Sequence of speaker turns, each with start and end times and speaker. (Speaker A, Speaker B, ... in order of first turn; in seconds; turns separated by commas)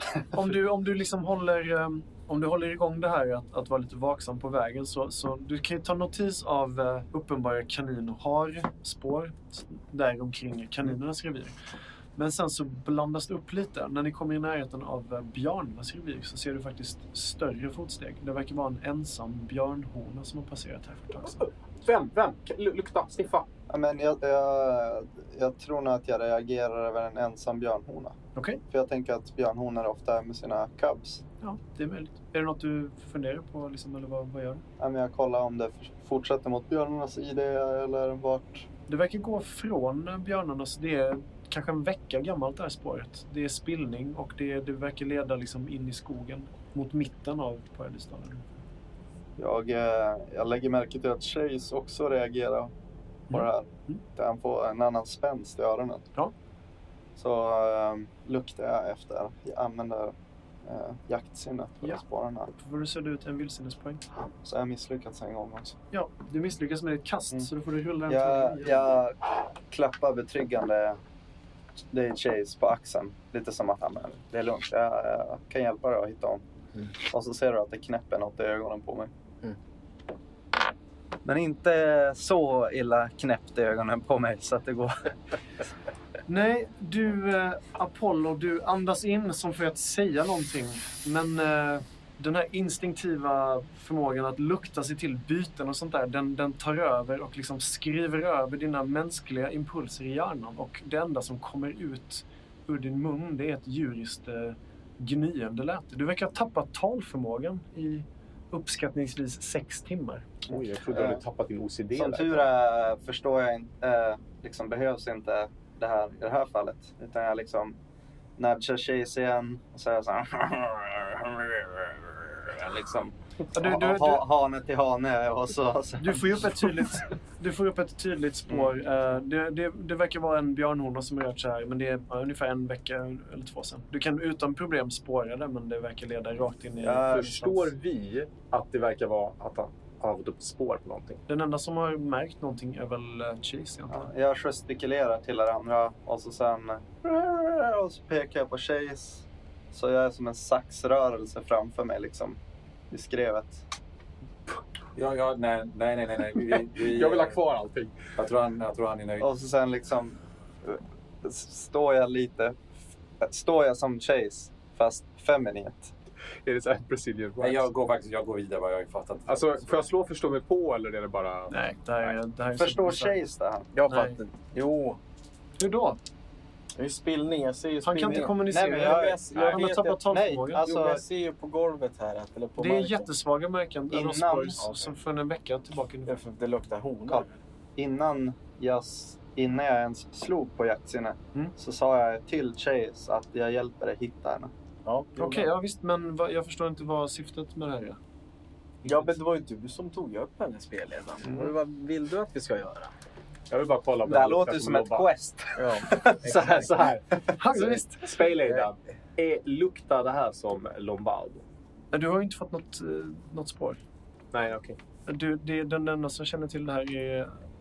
Speaker A: 0.3-11.6, Speaker A: 12.2-21.5, Speaker B: 21.4-23.5, Speaker C: 23.7-28.2, Speaker A: 28.4-28.6, Speaker C: 28.7-31.2, Speaker A: 31.4-34.6, Speaker C: 34.8-38.7, Speaker A: 38.9-48.6, Speaker C: 49.4-52.7, Speaker A: 53.3-54.0, Speaker C: 53.3-56.1, Speaker C: 57.2-62.5, Speaker A: 62.5-64.0, Speaker C: 64.4-65.8, Speaker A: 65.9-69.0, Speaker C: 68.1-71.0, Speaker C: 71.9-76.4, Speaker C: 77.0-79.1, Speaker C: 81.2-85.2, Speaker A: 86.3-110.4, Speaker B: 110.5-112.5, Speaker C: 110.5-111.2, Speaker C: 111.9-117.8, Speaker C: 118.4-126.9, Speaker A: 123.5-124.2, Speaker A: 126.0-137.7, Speaker C: 136.8-137.4, Speaker B: 137.1-141.2, Speaker A: 141.3-144.1, Speaker C: 143.9-152.4, Speaker C: 152.9-153.7, Speaker D: 154.9-157.4, Speaker B: 156.4-158.0, Speaker D: 158.2-159.3, Speaker C: 159.2-162.6, Speaker C: 163.2-165.9, Speaker B: 166.4-167.7, Speaker D: 167.4-169.9, Speaker B: 169.3-171.5, Speaker A: 171.5-173.2, Speaker C: 172.6-173.7, Speaker E: 173.7-175.0, Speaker A: 173.9-174.2, Speaker A: 175.6-176.0, Speaker E: 176.8-180.0, Speaker A: 177.8-180.7, Speaker C: 178.1-181.0, Speaker E: 180.6-183.1, Speaker A: 182.6-186.2, Speaker C: 183.9-184.7, Speaker E: 186.1-187.3, Speaker C: 187.1-194.5, Speaker E: 194.8-195.5, Speaker A: 195.2-198.0, Speaker A: 198.8-199.1, Speaker E: 198.8-202.9, Speaker B: 203.5-205.1, Speaker C: 204.0-207.4, Speaker E: 205.6-206.6, Speaker B: 206.2-211.4, Speaker A: 207.4-208.1, Speaker E: 208.4-208.7, Speaker A: 211.9-213.8, Speaker B: 214.3-214.8, Speaker A: 215.1-217.4